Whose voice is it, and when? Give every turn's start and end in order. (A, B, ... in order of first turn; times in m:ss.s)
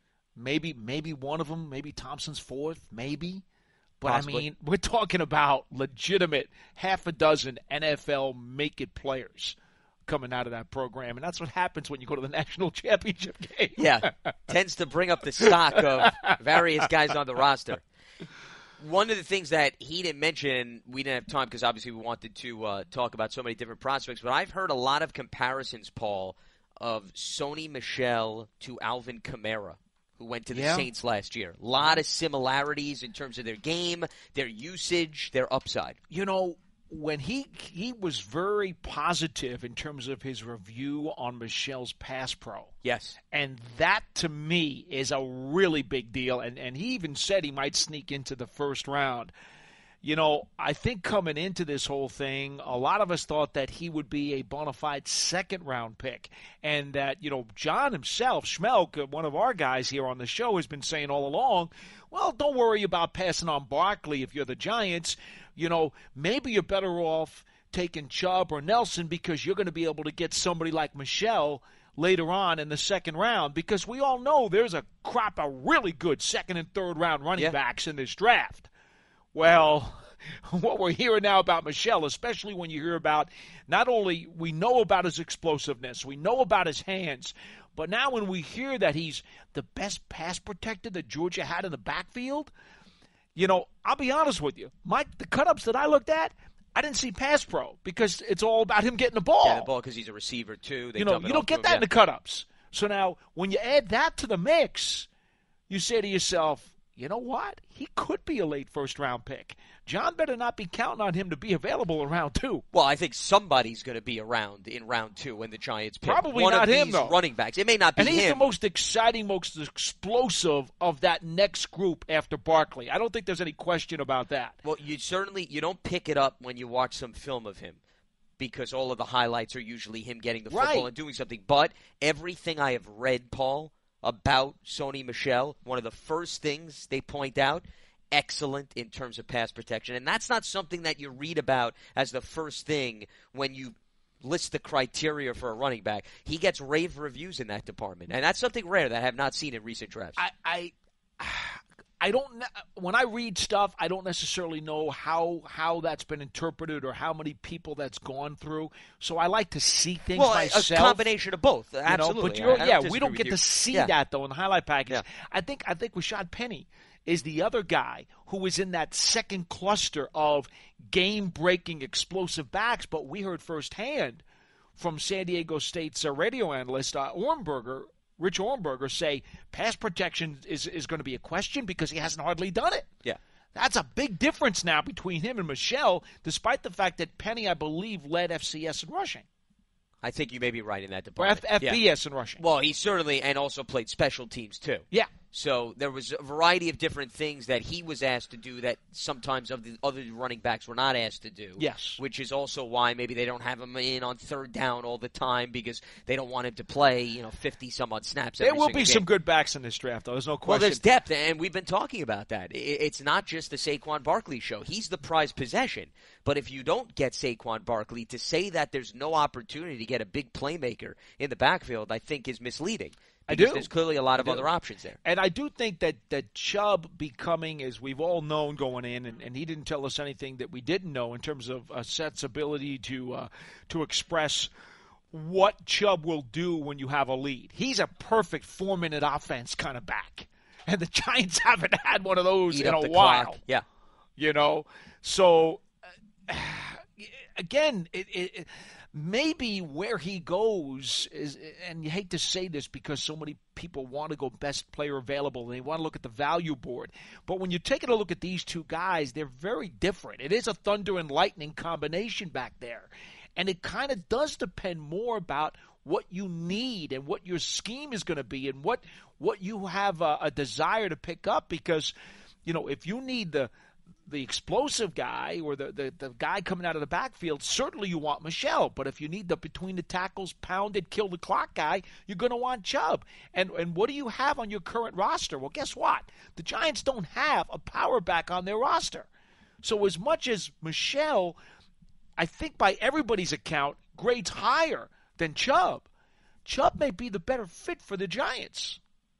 0:00.4-0:03.4 A
0:04.0-0:14.3 A
0:04.0-0:04.4 B
0:13.8-0:17.8 B
0:15.4-0:16.2 A
0:18.8-0:36.0 B
0:30.5-0:30.9 A
0:36.1-0:42.7 A
0:42.8-0:43.2 B
0:43.3-0:49.3 A
0:50.0-1:18.7 A
1:19.3-1:32.5 A
1:33.3-1:39.7 A
1:39.4-1:41.8 B
1:41.0-1:45.1 A
1:45.7-1:52.6 A
1:52.7-1:58.4 B
1:56.0-1:57.2 A
1:58.0-2:04.6 A
2:04.6-2:07.8 B
2:08.4-2:30.2 B
2:10.5-2:10.9 A
2:30.2-2:41.1 A
2:40.1-2:43.9 B
2:41.9-2:54.2 A
2:54.8-3:02.9 A
3:03.5-3:09.2 A
3:10.0-3:11.8 B
3:11.2-3:12.4 A
3:12.4-3:29.1 B
3:21.6-3:22.0 A
3:28.4-3:30.8 A
3:30.4-3:45.0 B
3:43.3-3:44.5 A
3:45.0-3:54.5 A
3:55.1-4:03.4 A
4:02.5-4:03.6 B
4:04.2-4:05.6 A
4:06.3-4:31.9 A
4:32.4-4:33.5 A
4:34.1-4:49.1 A
4:49.6-4:51.4 A
4:52.2-4:55.8 A
4:56.4-4:58.8 A